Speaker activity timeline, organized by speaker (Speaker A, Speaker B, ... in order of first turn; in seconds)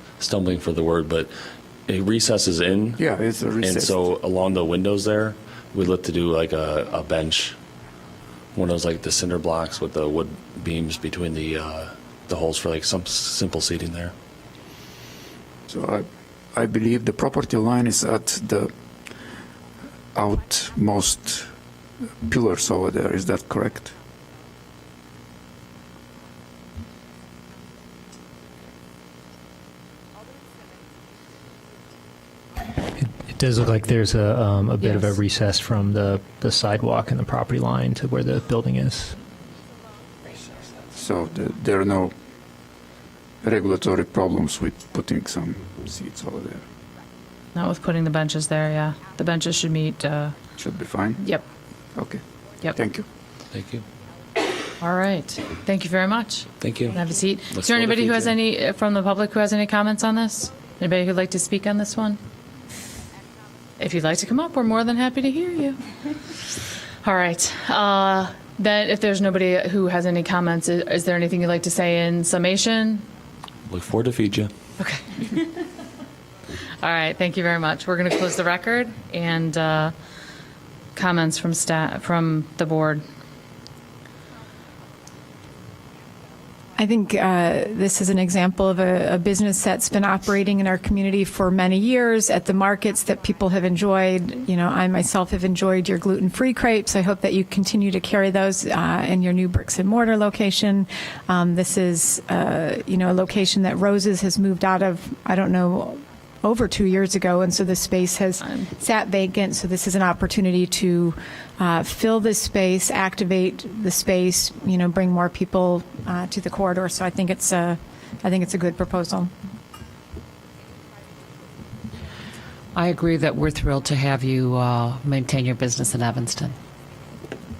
Speaker A: 0.2-1.3, 1.9-3.0, 3.6-7.6, 8.6-14.1, 53.5-53.8, 56.6-57.0, 57.5-58.4, 73.7-74.5
Speaker B: 3.0-4.1, 15.7-18.7, 20.1-21.5, 22.2-23.9, 40.9-42.1, 43.4-46.6, 50.6-51.3, 52.0-52.2, 52.8-53.1
Speaker C: 32.9-39.2
Speaker D: 34.8-35.1, 47.5-50.4, 51.2-51.4, 54.8-62.2, 63.8-65.8, 67.0-73.1, 74.8-75.6, 76.8-79.9, 80.9-83.1, 108.4-108.7
Speaker E: 86.8-119.3
Speaker F: 122.8-126.6